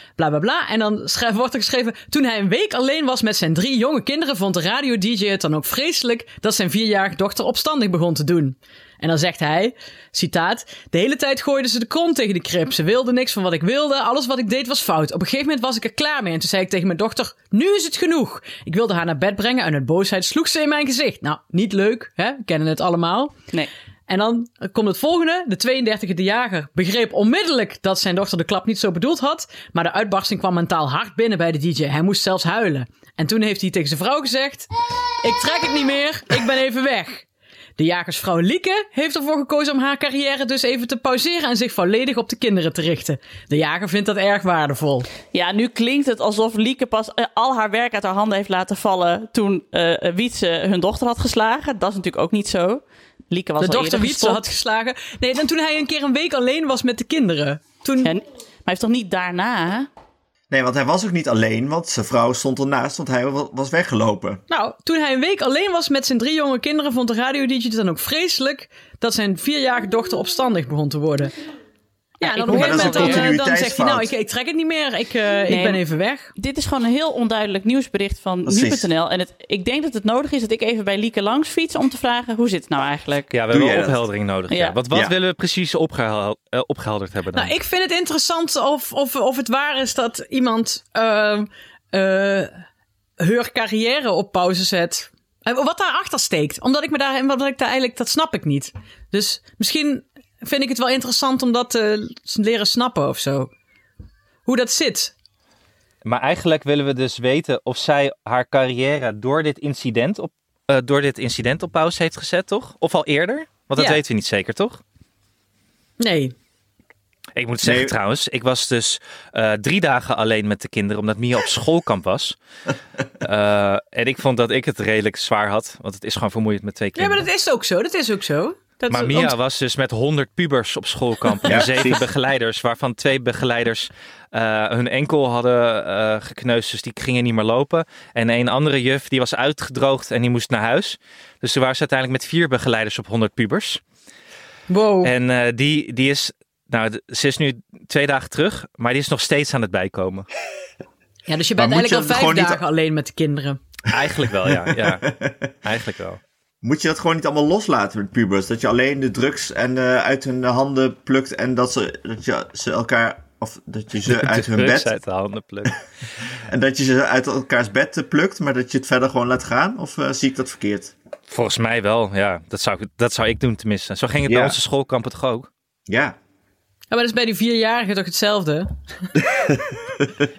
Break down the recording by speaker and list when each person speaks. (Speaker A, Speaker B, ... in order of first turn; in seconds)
Speaker A: 0.2-23.4, 24.1-34.7, 35.2-37.2, 37.8-45.1, 53.6-58.1, 64.5-71.3, 72.2-76.3, 87.3-92.5, 93.2-103.5, 104.5-105.1, 116.0-116.3, 127.0-129.3, 144.7-145.1, 151.3-153.6, 176.9-178.7
Speaker B: 45.3-54.4, 58.0-59.9, 72.2-73.3, 75.5-75.8, 76.3-83.3, 84.5-84.8
Speaker C: 60.5-64.4, 72.5-74.1, 78.4-78.9, 83.5-84.0, 117.6-118.0, 131.4-132.1, 151.6-152.6, 154.5-155.5, 156.6-164.9, 166.5-170.9, 174.2-174.6, 175.9-176.2, 179.2-180.3
Speaker D: 83.3-87.5, 106.0-114.8, 117.3-122.3, 123.2-127.2, 128.9-143.8, 145.0-150.3, 153.9-156.2, 164.1-165.8, 171.3-175.5